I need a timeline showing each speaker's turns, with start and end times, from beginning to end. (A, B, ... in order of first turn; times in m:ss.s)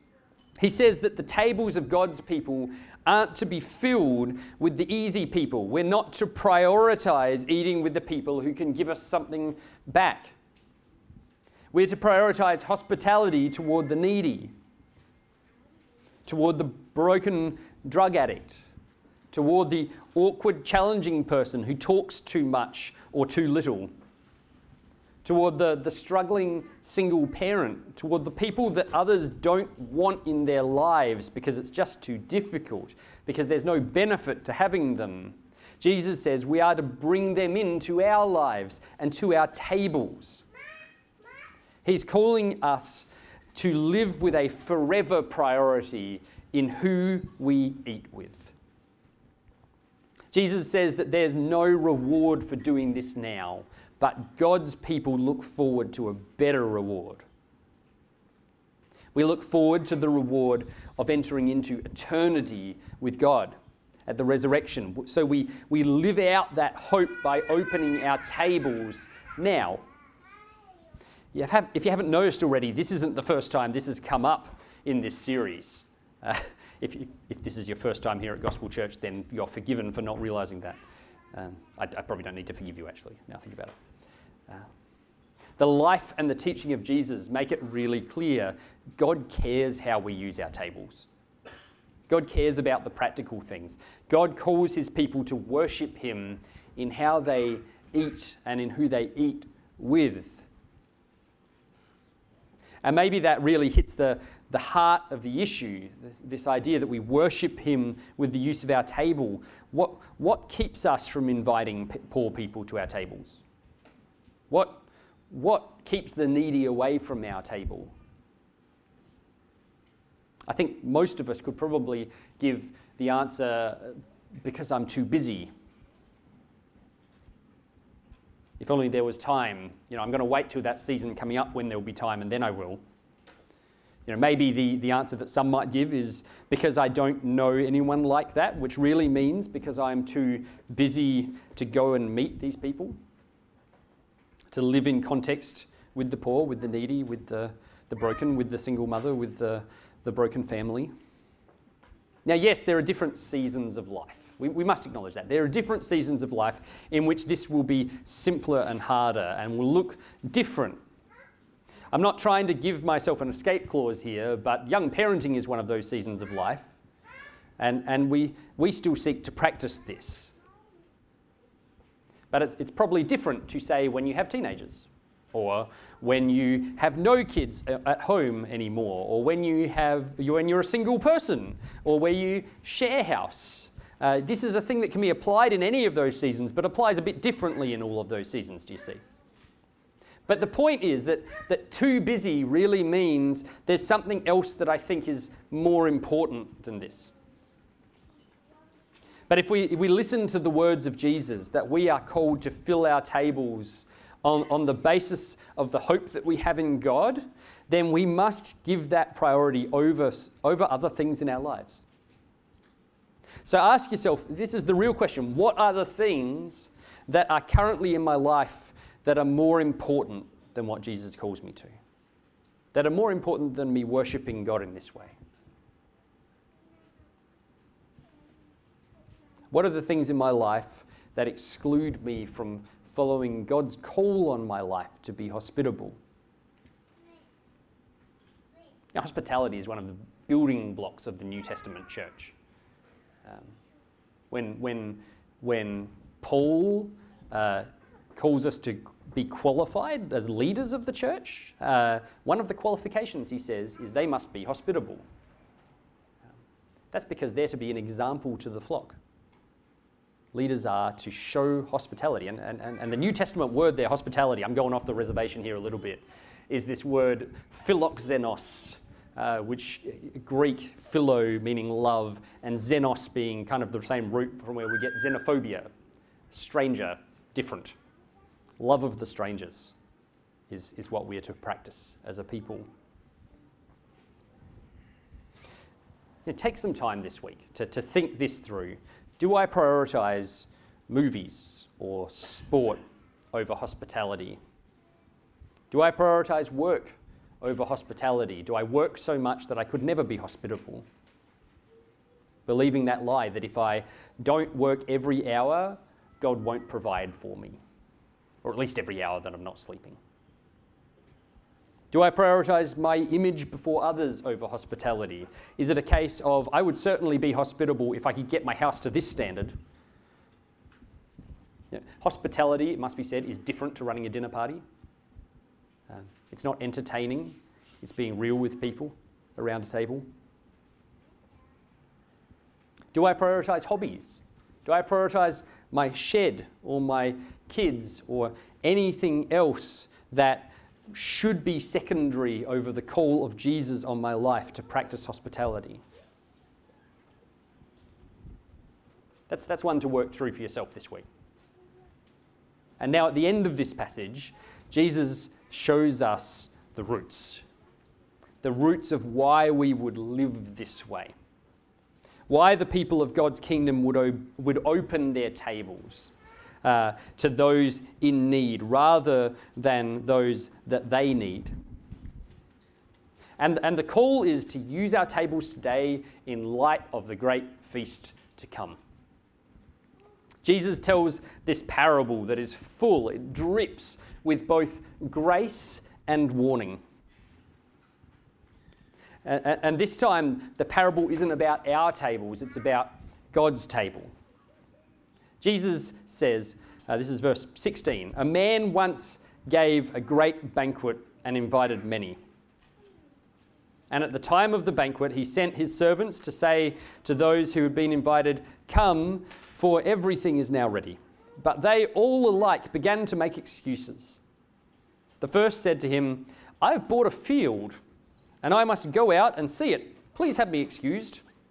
0:00.6-0:10.3 A
0:11.7-0:14.5 A
0:16.2-0:18.6 A
0:19.3-0:23.9 A
0:25.2-0:40.4 A
0:41.8-0:48.5 A
0:50.3-0:57.2 A
0:59.1-1:03.5 A
1:04.1-1:09.8 A
1:11.3-1:20.8 A
1:21.3-1:23.7 A
1:25.6-1:31.1 A
1:32.1-1:40.4 A
1:42.8-1:53.4 A
1:54.5-1:57.9 A
2:00.5-2:05.5 A
2:08.6-2:12.8 A
2:14.1-2:23.0 A
2:24.5-2:30.9 A
2:32.2-2:40.8 A
2:41.9-2:46.7 A
2:47.6-2:50.3 A
2:52.3-3:09.0 A
3:10.3-3:17.1 A
3:19.3-3:31.8 A
3:33.4-3:41.7 A
3:42.7-3:45.1 A
3:49.5-3:56.0 A
3:58.9-4:02.3 A
4:04.3-4:15.0 A
4:16.9-4:19.0 A
4:20.3-4:35.7 A
4:36.3-4:37.8 A
4:38.6-4:39.7 A
4:40.5-4:42.6 A
4:46.2-4:52.8 A
4:53.3-4:54.4 A
4:55.7-5:00.8 A
5:02.5-5:07.6 A
5:08.4-5:10.0 A
5:11.9-5:19.6 A
5:21.7-5:24.6 A
5:25.9-5:30.0 A
5:32.9-5:45.8 A
5:49.3-5:51.0 A
5:52.8-5:57.4 A
5:58.4-6:01.1 A
6:02.3-6:11.5 A
6:13.4-6:18.8 A
6:20.4-6:26.8 A
6:29.2-6:34.1 A
6:35.4-6:42.2 A
6:43.9-6:54.2 A
6:55.2-6:57.8 A
6:58.4-7:01.2 A